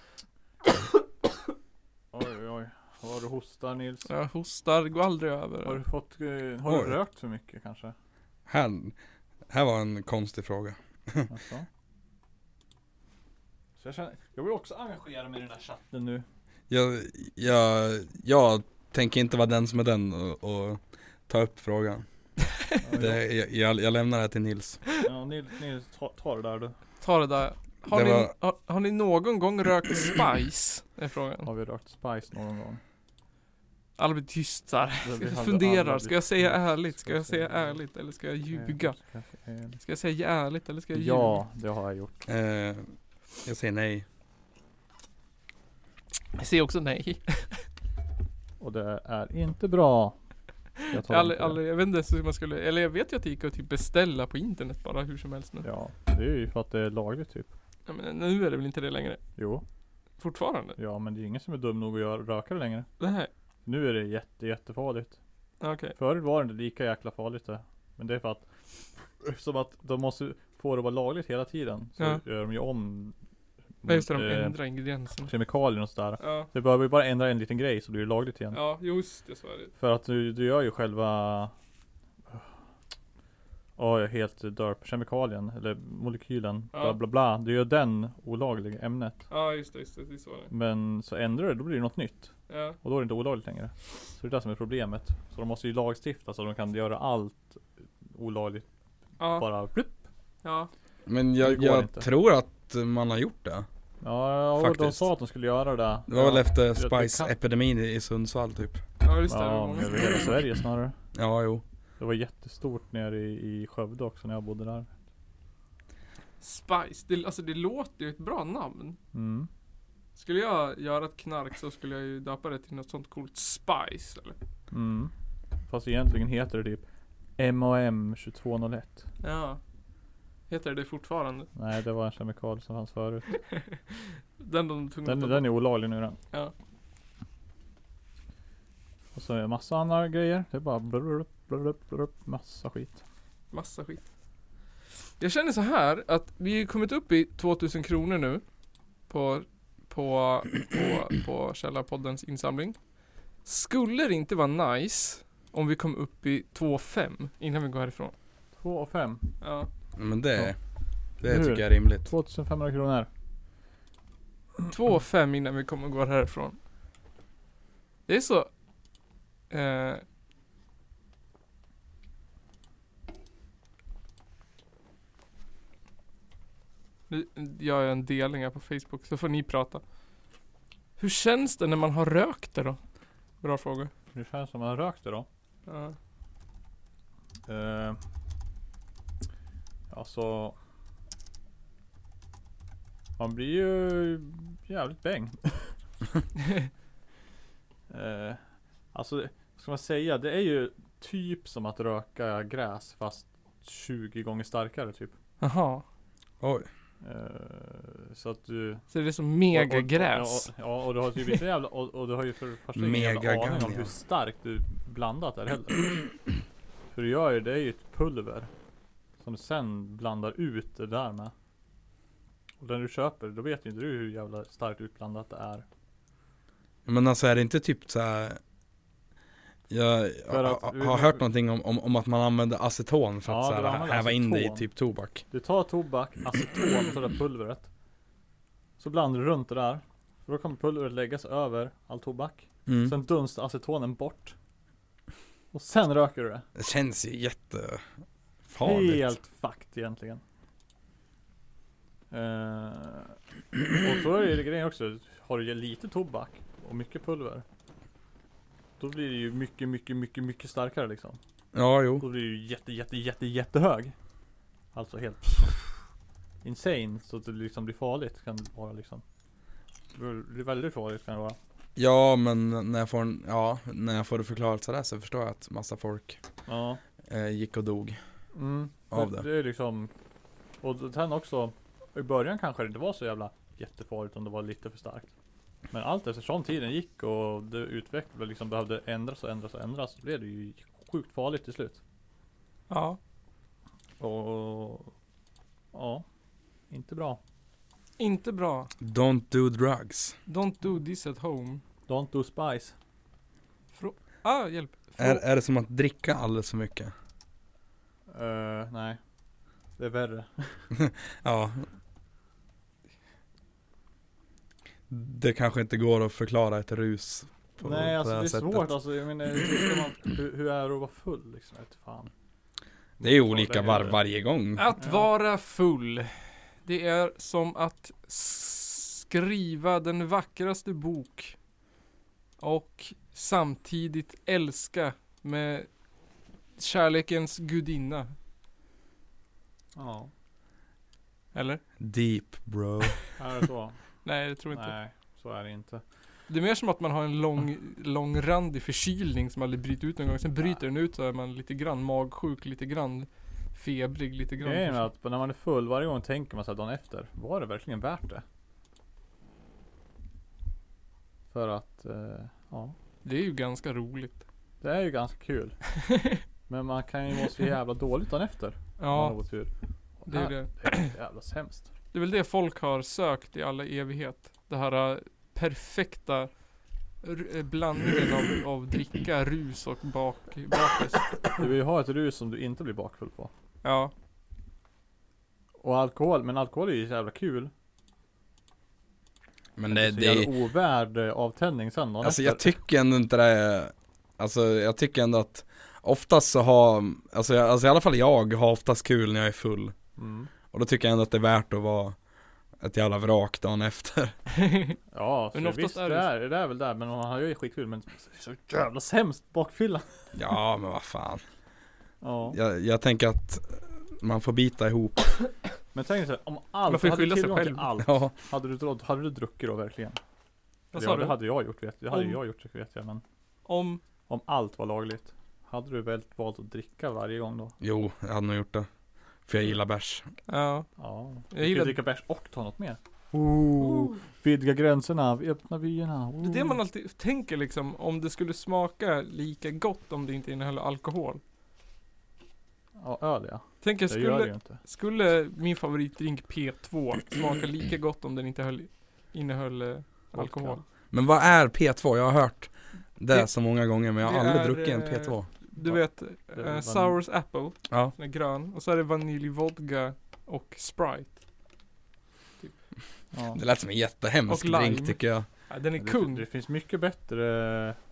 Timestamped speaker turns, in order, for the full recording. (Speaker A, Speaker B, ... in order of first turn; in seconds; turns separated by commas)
Speaker A: 2.1-4.1, Speaker B: 4.1-5.8, Speaker A: 5.7-7.9, Speaker C: 6.7-6.9, Speaker C: 8.5-9.0, Speaker C: 9.5-11.3, Speaker A: 11.3-11.7, Speaker A: 13.8-16.2, Speaker C: 16.7-22.1, Speaker A: 22.8-23.2, Speaker C: 23.0-24.8, Speaker A: 25.0-26.8, Speaker B: 27.0-31.5, Speaker C: 27.9-28.3, Speaker A: 31.4-32.8, Speaker B: 34.0-39.0, Speaker A: 35.0-37.8, Speaker A: 38.5-39.8, Speaker B: 39.8-41.4, Speaker A: 40.9-42.2, Speaker C: 42.3-42.9, Speaker C: 43.4-44.1, Speaker B: 46.4-47.7, Speaker A: 48.6-50.2, Speaker A: 50.9-51.6, Speaker B: 50.9-55.7, Speaker A: 55.6-57.5, Speaker B: 57.9-59.2, Speaker A: 59.4-59.6, Speaker B: 60.2-60.8, Speaker A: 60.8-62.9, Speaker B: 63.0-63.3, Speaker A: 63.6-65.2, Speaker B: 65.6-66.0, Speaker A: 66.0-68.5, Speaker A: 69.2-73.2, Speaker A: 73.8-74.6, Speaker B: 73.9-75.3, Speaker A: 75.3-78.6, Speaker B: 76.2-76.5, Speaker B: 78.5-79.7, Speaker A: 79.8-81.5, Speaker A: 83.8-89.2, Speaker B: 86.7-87.0, Speaker B: 89.3-90.5, Speaker A: 90.5-98.7, Speaker B: 92.5-92.8, Speaker B: 99.2-99.5, Speaker A: 99.2-100.0, Speaker B: 100.4-100.7, Speaker C: 101.1-103.7, Speaker A: 101.4-102.1, Speaker A: 104.0-107.3, Speaker C: 104.6-105.0, Speaker C: 106.1-108.8, Speaker B: 109.0-110.3, Speaker A: 109.3-111.0, Speaker C: 111.2-111.6, Speaker A: 112.0-114.9, Speaker B: 116.4-119.0, Speaker A: 119.1-119.5, Speaker B: 120.2-124.4, Speaker A: 124.7-125.1, Speaker A: 125.7-126.8, Speaker A: 127.4-129.1, Speaker B: 129.2-129.6, Speaker B: 130.5-131.5, Speaker A: 131.6-133.3, Speaker B: 133.4-135.5, Speaker A: 135.1-136.2, Speaker A: 139.2-143.0, Speaker B: 143.5-144.0, Speaker B: 145.2-148.4, Speaker B: 149.1-152.8, Speaker B: 153.4-158.1, Speaker A: 158.6-159.3, Speaker B: 159.4-159.7, Speaker C: 160.0-160.6, Speaker C: 161.2-162.1, Speaker A: 161.2-163.1, Speaker B: 164.7-166.6, Speaker B: 168.1-168.5, Speaker B: 169.5-170.0, Speaker B: 177.1-179.8, Speaker B: 181.0-182.8, Speaker B: 183.4-183.9, Speaker A: 184.1-185.3, Speaker B: 185.7-186.0, Speaker A: 187.5-188.0, Speaker A: 189.9-190.6, Speaker A: 193.2-195.8, Speaker A: 197.9-198.4, Speaker A: 198.9-205.2, Speaker B: 205.4-205.8, Speaker C: 206.4-206.7, Speaker A: 207.0-208.9, Speaker B: 208.9-210.5, Speaker A: 209.5-216.2, Speaker C: 212.8-213.9, Speaker A: 216.9-218.5, Speaker A: 219.2-221.3, Speaker A: 222.6-225.7, Speaker C: 226.9-228.4, Speaker C: 229.7-235.2, Speaker A: 230.3-231.2, Speaker A: 233.3-234.7, Speaker A: 235.3-237.7, Speaker A: 238.8-244.3, Speaker C: 242.7-242.9, Speaker A: 245.5-246.4, Speaker C: 246.6-247.9, Speaker C: 248.5-249.1, Speaker A: 248.6-250.2, Speaker A: 252.1-253.2, Speaker A: 253.7-257.4, Speaker A: 258.8-261.2, Speaker C: 261.5-262.1, Speaker A: 262.0-263.9, Speaker A: 264.7-265.8, Speaker A: 266.4-269.0, Speaker A: 269.9-271.4, Speaker C: 271.8-276.2, Speaker A: 276.5-276.8, Speaker C: 277.0-278.0, Speaker A: 278.3-279.9, Speaker C: 278.9-279.3, Speaker A: 280.6-285.1, Speaker A: 285.7-291.8, Speaker B: 292.7-293.0, Speaker A: 294.0-294.9, Speaker A: 295.7-296.1, Speaker A: 296.7-297.2, Speaker B: 298.0-298.7, Speaker C: 298.8-300.2, Speaker B: 300.3-301.6, Speaker A: 301.9-302.8, Speaker B: 303.7-305.2, Speaker C: 305.0-306.9, Speaker A: 308.1-309.0, Speaker A: 309.8-310.7, Speaker C: 310.7-311.7, Speaker C: 314.9-318.7, Speaker A: 317.6-322.1, Speaker A: 323.0-324.0, Speaker C: 323.0-324.7, Speaker B: 324.6-331.4, Speaker A: 324.8-325.1, Speaker B: 332.4-335.7, Speaker B: 336.6-338.1, Speaker A: 339.8-340.1, Speaker B: 341.3-341.6, Speaker C: 341.8-343.0, Speaker A: 343.2-343.8, Speaker B: 344.0-344.8, Speaker A: 344.5-345.8, Speaker B: 346.3-354.9, Speaker A: 354.4-358.2, Speaker A: 361.3-362.8, Speaker B: 363.0-364.2, Speaker A: 364.6-365.6, Speaker B: 365.8-366.2, Speaker A: 366.5-371.7, Speaker B: 368.8-369.2, Speaker B: 370.1-370.9, Speaker B: 371.9-376.3, Speaker B: 377.0-381.2, Speaker A: 381.4-383.3, Speaker B: 383.6-383.9, Speaker A: 385.6-387.5, Speaker C: 389.6-390.3, Speaker A: 389.7-392.6, Speaker C: 392.0-399.8, Speaker A: 400.0-400.3, Speaker C: 400.5-402.0, Speaker C: 402.6-404.2, Speaker B: 404.3-404.8, Speaker A: 404.9-410.1, Speaker B: 405.3-406.1, Speaker C: 410.1-411.2, Speaker A: 412.0-412.4, Speaker C: 412.3-415.1, Speaker A: 415.7-420.0, Speaker B: 416.7-417.7, Speaker C: 417.8-418.1, Speaker B: 420.7-421.2, Speaker A: 420.7-423.0, Speaker B: 421.9-422.2, Speaker B: 423.5-423.8, Speaker A: 424.1-427.6, Speaker C: 427.6-428.7, Speaker C: 429.3-430.1, Speaker B: 430.3-430.7, Speaker A: 430.8-436.6, Speaker B: 431.3-431.8, Speaker B: 433.6-434.0, Speaker B: 436.2-441.2, Speaker A: 442.8-444.6, Speaker B: 443.6-450.6, Speaker A: 450.1-450.6, Speaker C: 450.9-455.3, Speaker B: 454.0-461.2, Speaker A: 455.6-457.0, Speaker A: 463.1-463.4, Speaker C: 463.3-465.3, Speaker B: 464.3-466.2, Speaker A: 465.8-467.8